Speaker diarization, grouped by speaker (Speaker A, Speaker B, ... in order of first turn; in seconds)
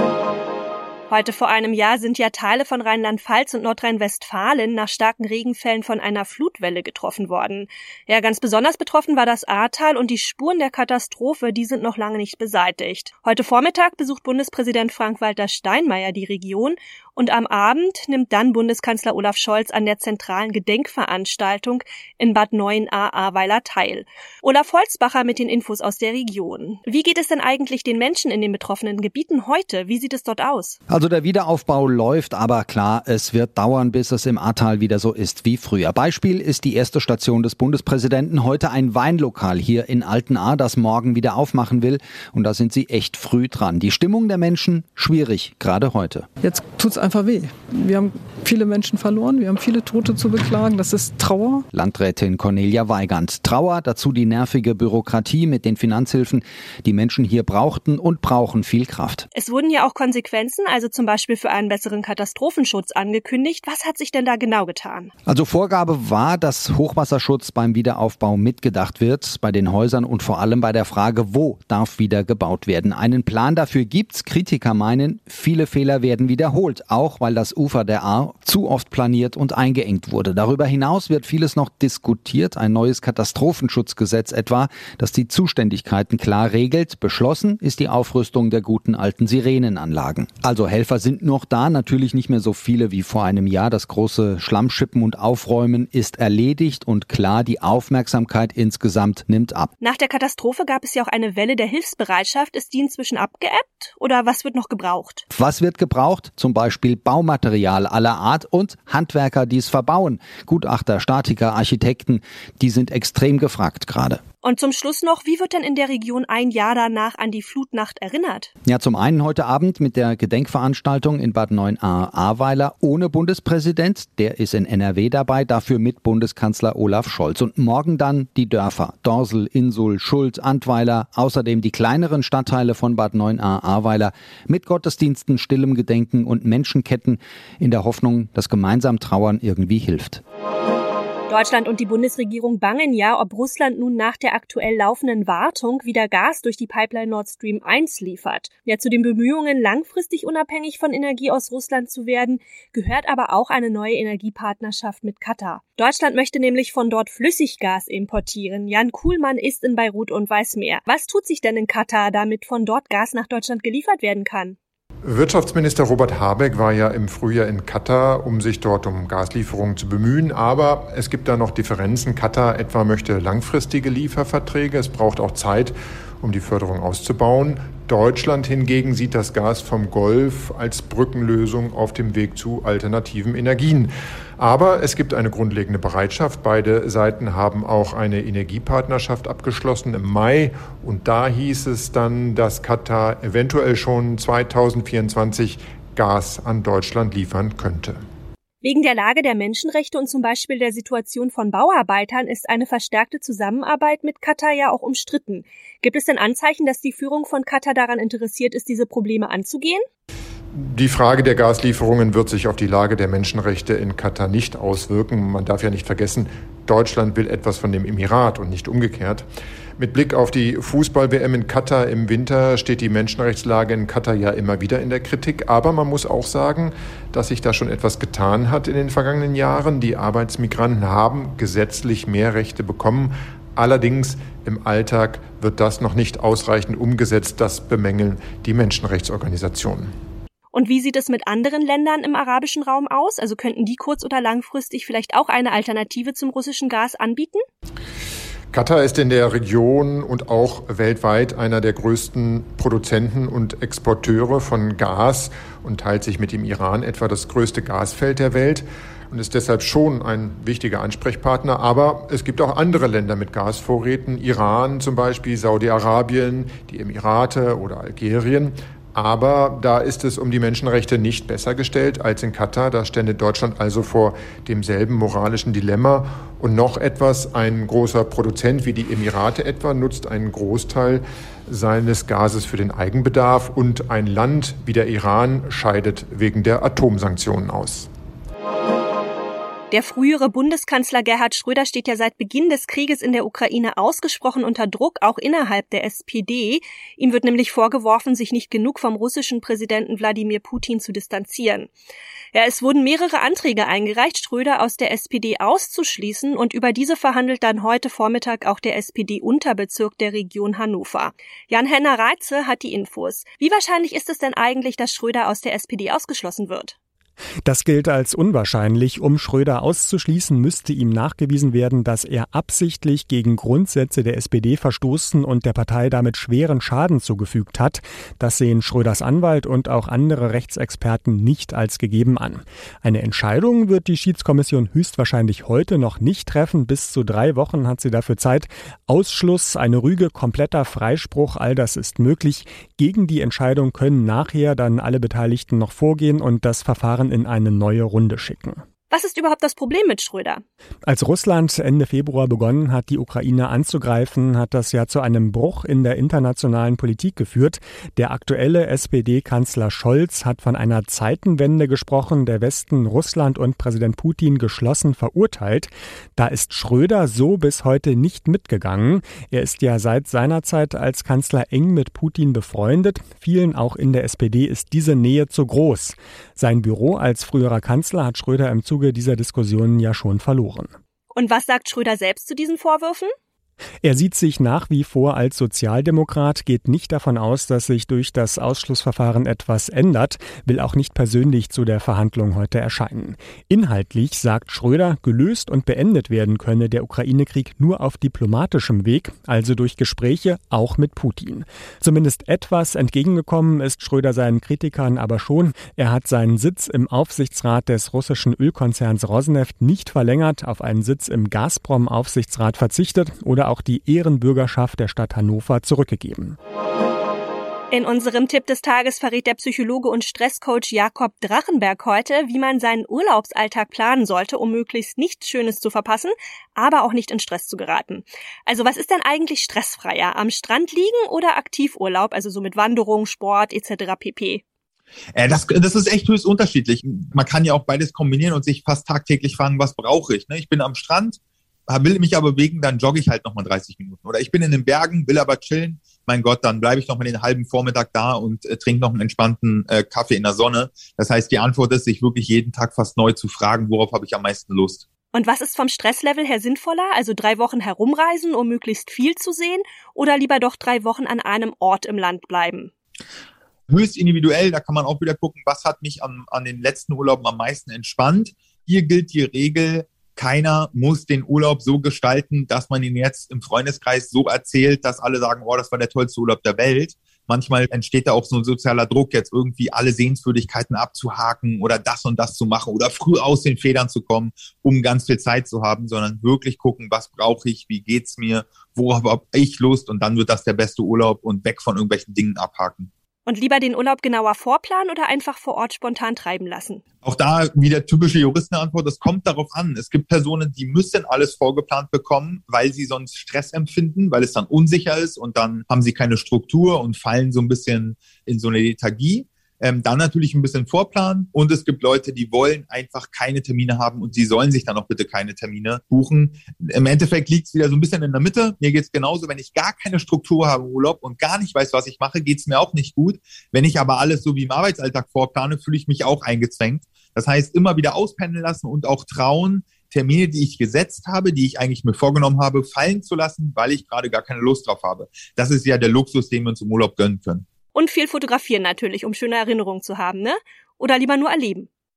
Speaker A: 1.1-30.8, 59.3-65.1, 99.8-105.2, 114.4-118.5, 141.3-164.6, 198.6-209.8, 240.5-247.4, 289.7-301.7, 302.3-316.8, 348.9-350.4, 381.1-383.1, 417.7-434.4, 455.1-462.7, 493.2-496.8, 537.7-541.7
Speaker B: 30.9-46.3, 51.7-59.2, 65.2-99.7, 105.3-114.2, 118.7-140.2
Speaker C: 46.4-51.6
Speaker D: 165.0-198.0, 210.6-219.2, 219.8-239.9, 248.5-287.9
Speaker E: 317.4-348.6, 350.9-380.7, 383.8-416.4
Speaker F: 435.1-454.8, 463.7-492.9, 497.0-537.5